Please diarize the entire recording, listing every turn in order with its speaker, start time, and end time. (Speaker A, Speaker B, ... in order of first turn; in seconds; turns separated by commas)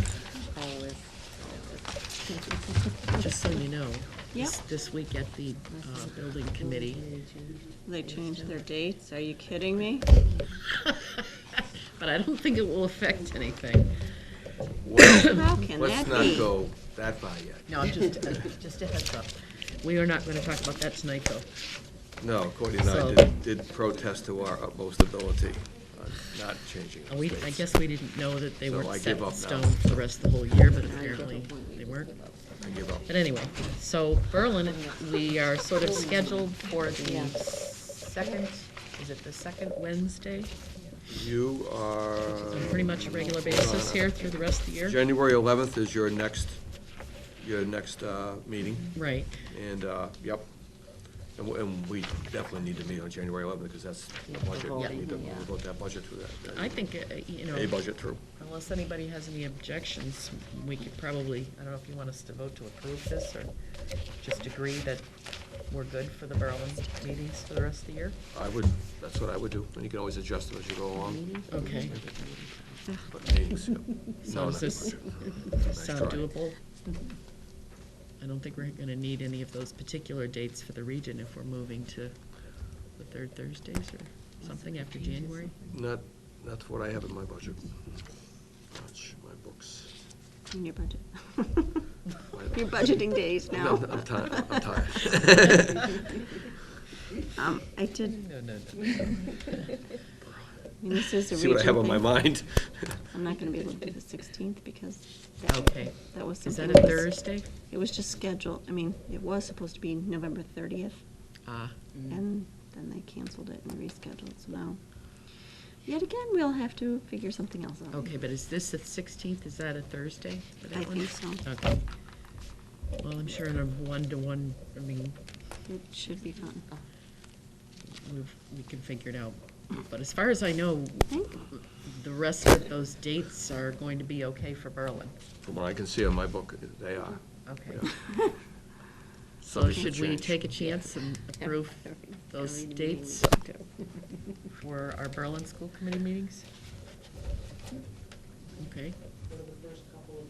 Speaker A: 0.5-3.0, Speaker B: 3.1-7.1, Speaker A: 5.7-8.7, Speaker C: 7.8-10.1, Speaker A: 10.3-10.6, Speaker B: 10.8-14.1, Speaker D: 14.8-18.1, Speaker B: 15.0-15.4, Speaker C: 15.2-16.5, Speaker B: 17.7-21.5, Speaker D: 22.2-27.7, Speaker B: 22.8-23.3, Speaker B: 27.1-32.1, Speaker D: 28.6-30.0, Speaker A: 30.8-32.6, Speaker D: 32.6-33.2, Speaker B: 33.0-40.5, Speaker A: 34.6-35.1, Speaker A: 35.8-36.5, Speaker A: 37.0-37.4, Speaker D: 41.1-58.2, Speaker B: 42.5-45.0, Speaker B: 48.9-49.3, Speaker A: 54.3-55.5, Speaker B: 56.5-63.5, Speaker B: 64.2-68.2, Speaker D: 68.3-72.0, Speaker A: 71.0-72.9, Speaker B: 71.5-72.0, Speaker D: 73.1-76.4, Speaker B: 74.2-76.6, Speaker B: 78.2-82.3, Speaker B: 82.9-85.5, Speaker A: 84.4-85.7, Speaker D: 85.7-88.1, Speaker D: 88.7-89.9, Speaker C: 90.5-92.0, Speaker D: 92.3-96.0, Speaker C: 92.5-95.1, Speaker C: 97.3-98.3, Speaker B: 98.1-99.8, Speaker D: 100.2-103.2, Speaker C: 100.8-102.2, Speaker C: 103.1-111.0, Speaker B: 105.5-107.5, Speaker B: 111.5-112.2, Speaker C: 112.1-115.3, Speaker C: 115.8-118.1, Speaker B: 117.9-121.8, Speaker C: 120.7-121.4, Speaker B: 123.0-125.2, Speaker C: 125.7-126.7, Speaker B: 127.9-135.2, Speaker C: 131.1-131.4, Speaker D: 135.4-138.1, Speaker B: 137.4-137.8, Speaker D: 139.4-140.5, Speaker B: 139.5-143.4, Speaker A: 141.3-144.3, Speaker B: 144.5-146.5, Speaker B: 148.6-149.0